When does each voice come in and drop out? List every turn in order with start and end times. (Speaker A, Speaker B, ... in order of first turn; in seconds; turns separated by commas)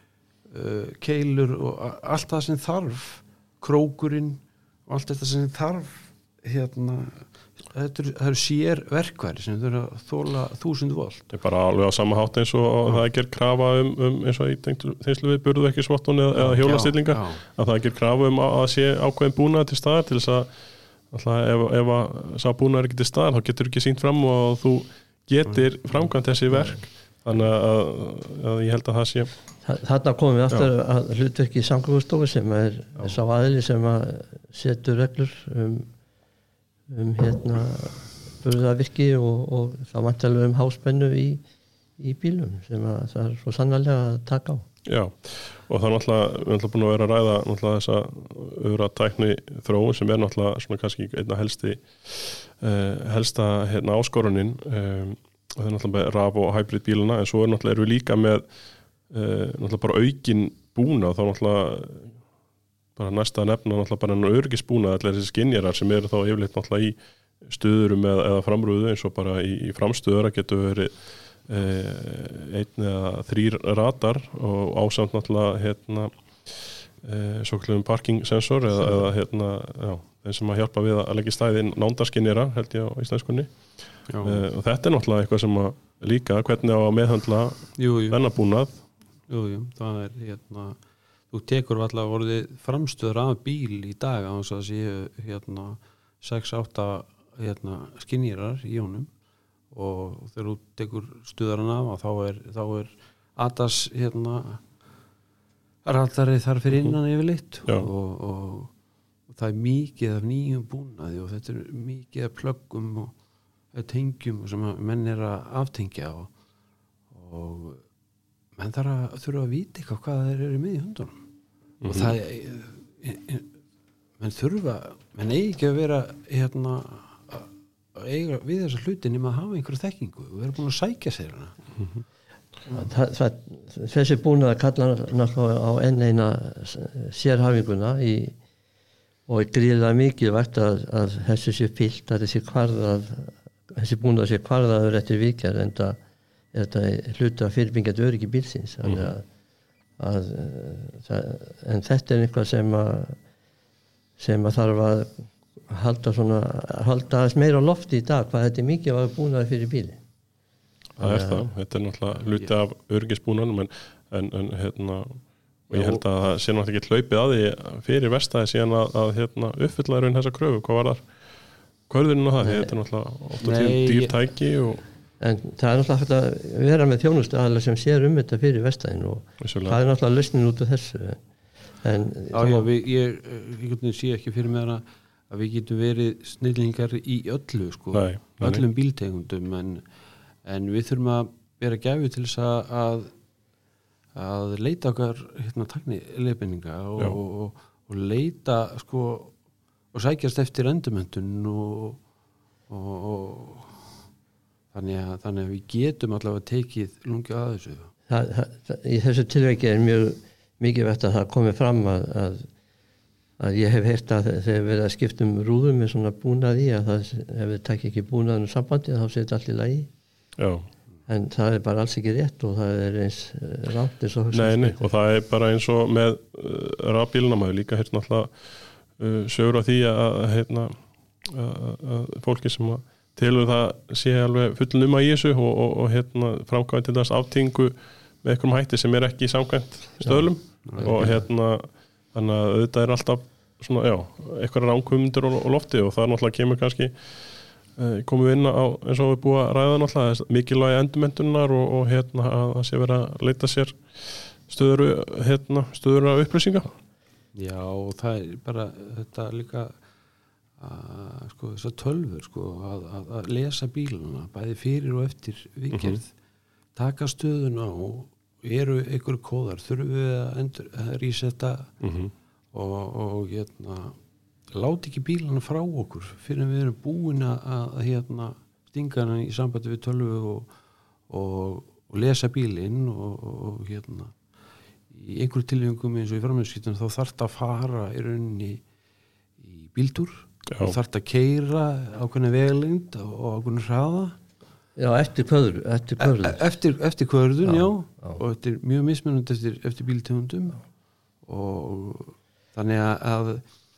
Speaker A: 0.5-11.3, Speaker B: 11.3-20.5, Speaker A: 16.3-17.4, Speaker B: 21.1-29.3, Speaker A: 25.5-25.7, Speaker C: 29.6-35.9, Speaker C: 36.9-41.4, Speaker C: 42.0-44.6, Speaker B: 44.9-58.5, Speaker B: 59.1-62.2, Speaker B: 63.0-83.5, Speaker A: 84.1-84.5, Speaker B: 84.2-88.8, Speaker A: 87.8-88.2, Speaker A: 89.3-90.8, Speaker A: 91.3-99.1, Speaker A: 99.7-104.6, Speaker A: 105.8-108.7, Speaker B: 106.7-107.0, Speaker A: 109.3-113.1, Speaker A: 113.7-116.3, Speaker A: 117.1-117.8, Speaker A: 118.6-121.2, Speaker B: 121.8-122.2, Speaker A: 121.8-123.5, Speaker A: 124.2-131.6, Speaker B: 131.8-132.0, Speaker C: 132.7-138.4, Speaker C: 139.3-146.0, Speaker C: 146.5-149.2, Speaker C: 150.0-153.2, Speaker C: 154.2-160.0, Speaker B: 161.0-171.1, Speaker C: 161.0-161.5, Speaker A: 165.7-166.0, Speaker B: 171.9-174.8, Speaker C: 172.4-172.7, Speaker A: 173.4-174.2, Speaker C: 175.2-181.2, Speaker B: 179.4-179.8, Speaker C: 181.8-182.7, Speaker A: 182.3-189.8, Speaker B: 187.9-188.6, Speaker A: 190.4-193.1, Speaker A: 194.2-199.3, Speaker A: 199.9-202.0, Speaker A: 202.7-203.9, Speaker A: 204.7-207.9, Speaker C: 208.1-212.5, Speaker C: 213.4-219.9, Speaker B: 220.4-220.7, Speaker C: 221.1-224.9, Speaker B: 224.3-228.3, Speaker B: 228.9-256.8, Speaker A: 240.6-241.1, Speaker C: 240.8-241.2, Speaker A: 257.3-259.8, Speaker A: 260.6-266.1, Speaker B: 265.7-266.0, Speaker A: 266.8-271.7, Speaker B: 271.8-272.1, Speaker A: 272.5-274.0, Speaker A: 274.5-280.5, Speaker A: 281.1-284.1, Speaker A: 284.9-288.6, Speaker A: 289.4-294.2, Speaker B: 290.5-290.8, Speaker C: 294.8-296.4, Speaker A: 296.0-300.6, Speaker C: 297.5-298.2, Speaker A: 301.2-303.4